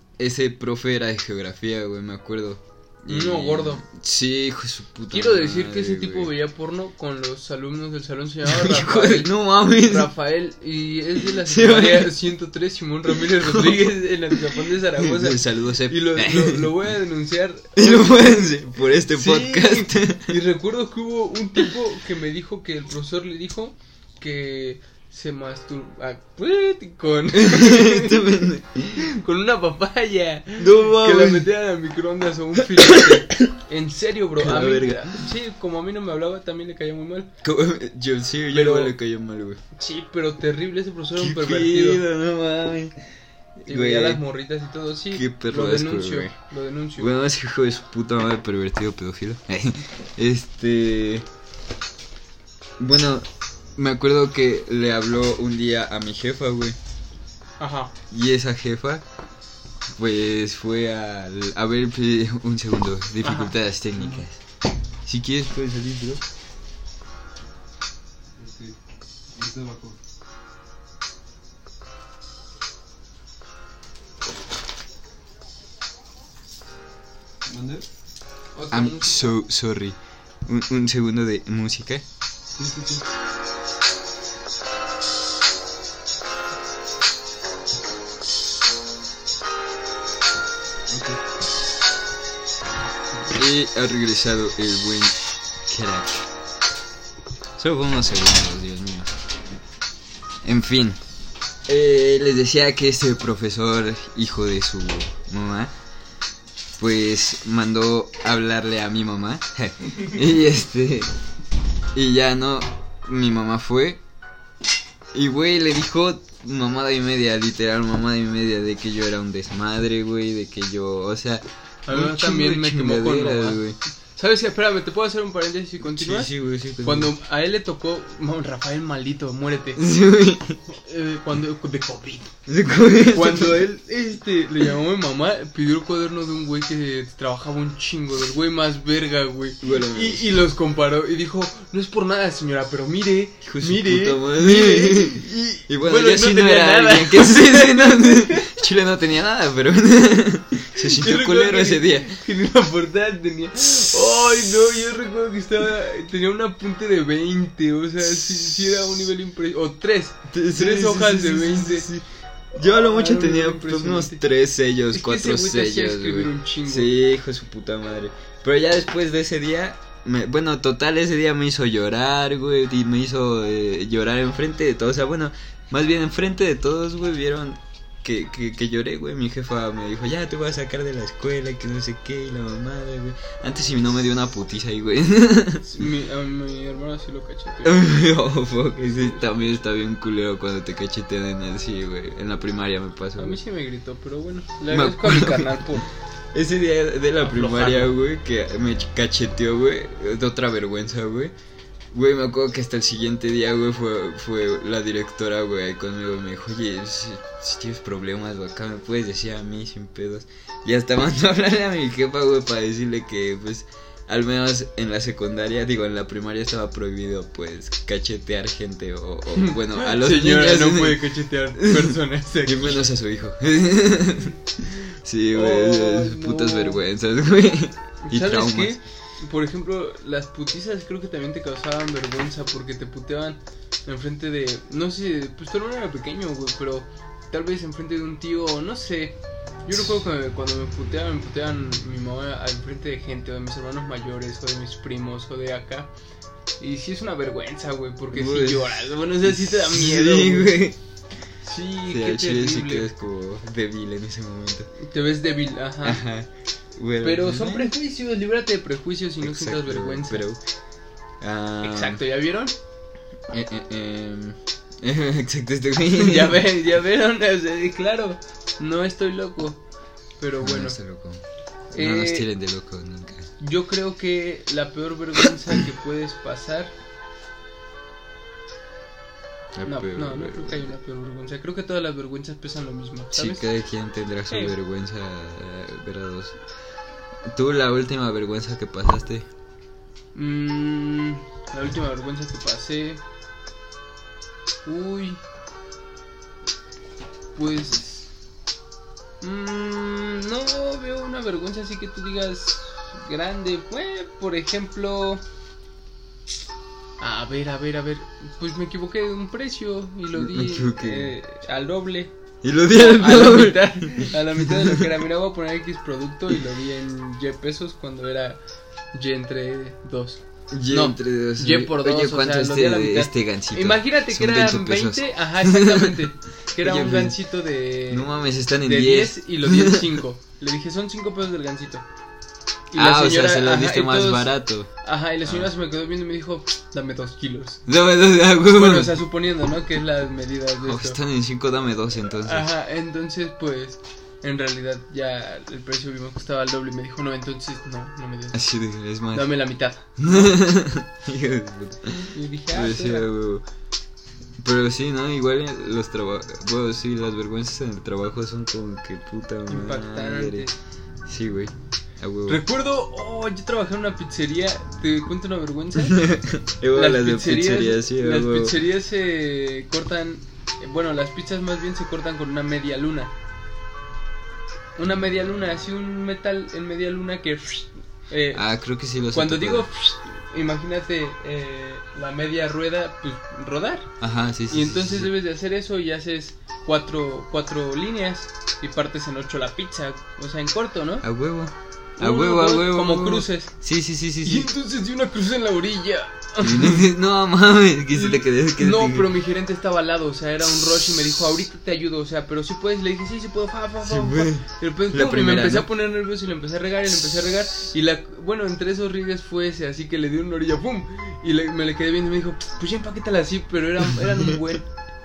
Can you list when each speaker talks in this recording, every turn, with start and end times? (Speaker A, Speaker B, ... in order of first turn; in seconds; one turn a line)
Speaker A: 0.2-6.3
Speaker B: 3.1-3.8
Speaker B: 5.1-28.4
Speaker A: 8.4-10.1
Speaker A: 11.3-12.1
Speaker A: 13.2-16.8
Speaker A: 17.8-20.4
Speaker A: 27.3-29.1
Speaker B: 29.0-37.3
Speaker A: 30.6-31.5
Speaker A: 32.6-33.5
Speaker A: 34.4-35.2
Speaker A: 37.4-39.6
Speaker B: 38.5-38.9
Speaker B: 39.8-42.0
Speaker A: 41.1-43.0
Speaker A: 43.6-44.2
Speaker B: 43.7-47.1
Speaker A: 45.1-46.3
Speaker A: 47.0-51.3
Speaker A: 52.8-56.8
Speaker B: 57.6-57.9
Speaker A: 58.1-59.0
Speaker A: 60.0-64.4
Speaker B: 63.2-63.5
Speaker C: 63.9-64.3
Speaker A: 65.0-66.2
Speaker C: 68.4-68.8
Speaker C: 69.3-70.0
Speaker C: 77.4-77.9
Speaker B: 78.5-79.2
Speaker A: 78.7-82.0
Speaker C: 82.5-83.1
Speaker C: 90.9-91.2
Speaker C: 93.1-93.4
Speaker A: 93.3-96.3
Speaker A: 97.6-99.1
Speaker A: 100.4-101.0
Speaker A: 101.7-105.7
Speaker A: 106.8-111.1
Speaker A: 111.9-114.0
Speaker A: 115.1-123.8
Speaker B: 121.9-123.6
Speaker B: 124.2-129.8
Speaker A: 125.8-127.1
Speaker A: 129.8-130.6
Speaker B: 130.7-132.3
Speaker A: 132.5-133.6
Speaker B: 133.1-148.5
Speaker A: 139.6-140.3
Speaker A: 143.4-152.2
Speaker B: 150.8-161.9
Speaker A: 158.0-158.8
Speaker A: 160.3-185.7
Speaker B: 162.6-164.2
Speaker B: 164.9-166.9
Speaker B: 185.6-187.9
Speaker A: 187.6-193.4
Speaker B: 193.2-195.9
Speaker A: 194.7-195.6
Speaker A: 196.3-201.3
Speaker B: 197.2-197.9
Speaker A: 201.9-228.8
Speaker B: 219.4-222.9
Speaker B: 225.3-226.8
Speaker B: 228.1-245.9
Speaker A: 239.7-240.0
Speaker B: 246.6-250.6
Speaker A: 248.1-250.8
Speaker B: 251.4-252.9
Speaker A: 251.9-254.7
Speaker B: 254.8-256.0
Speaker A: 255.8-257.7
Speaker B: 257.0-260.2
Speaker A: 259.2-260.4
Speaker A: 261.2-262.0
Speaker B: 261.6-262.5
Speaker A: 263.3-266.4
Speaker B: 265.9-269.6
Speaker B: 270.2-270.8
Speaker A: 270.4-273.3
Speaker B: 271.7-272.3
Speaker B: 273.4-276.7
Speaker A: 279.6-280.7
Speaker B: 279.6-283.5
Speaker A: 283.1-286.4
Speaker B: 284.3-284.5
Speaker A: 287.3-289.3
Speaker B: 290.1-293.0
Speaker B: 294.6-295.2
Speaker B: 297.4-298.1
Speaker B: 299.2-305.2
Speaker B: 307.0-312.1
Speaker A: 310.1-311.1
Speaker A: 312.4-314.9
Speaker B: 312.7-318.4
Speaker B: 318.9-331.9
Speaker A: 320.5-326.0
Speaker A: 326.6-327.2
Speaker A: 327.9-330.0
Speaker B: 332.7-337.6
Speaker A: 332.7-334.7
Speaker A: 337.7-338.9
Speaker B: 338.5-341.0
Speaker A: 340.6-342.5
Speaker B: 342.3-348.4
Speaker A: 348.3-349.4
Speaker B: 349.1-350.4
Speaker A: 350.0-352.0
Speaker B: 351.9-353.1
Speaker A: 352.5-353.4
Speaker A: 354.4-360.5
Speaker B: 359.5-360.6
Speaker A: 361.1-362.4
Speaker B: 362.3-366.0
Speaker A: 365.8-368.6
Speaker B: 366.7-373.1
Speaker B: 374.8-378.4
Speaker A: 378.3-379.7
Speaker B: 379.1-383.9
Speaker A: 384.0-385.1
Speaker B: 384.5-391.1
Speaker A: 391.0-394.5
Speaker B: 392.0-393.5
Speaker B: 394.2-396.9
Speaker A: 396.4-399.1
Speaker B: 397.9-414.7
Speaker A: 403.8-405.7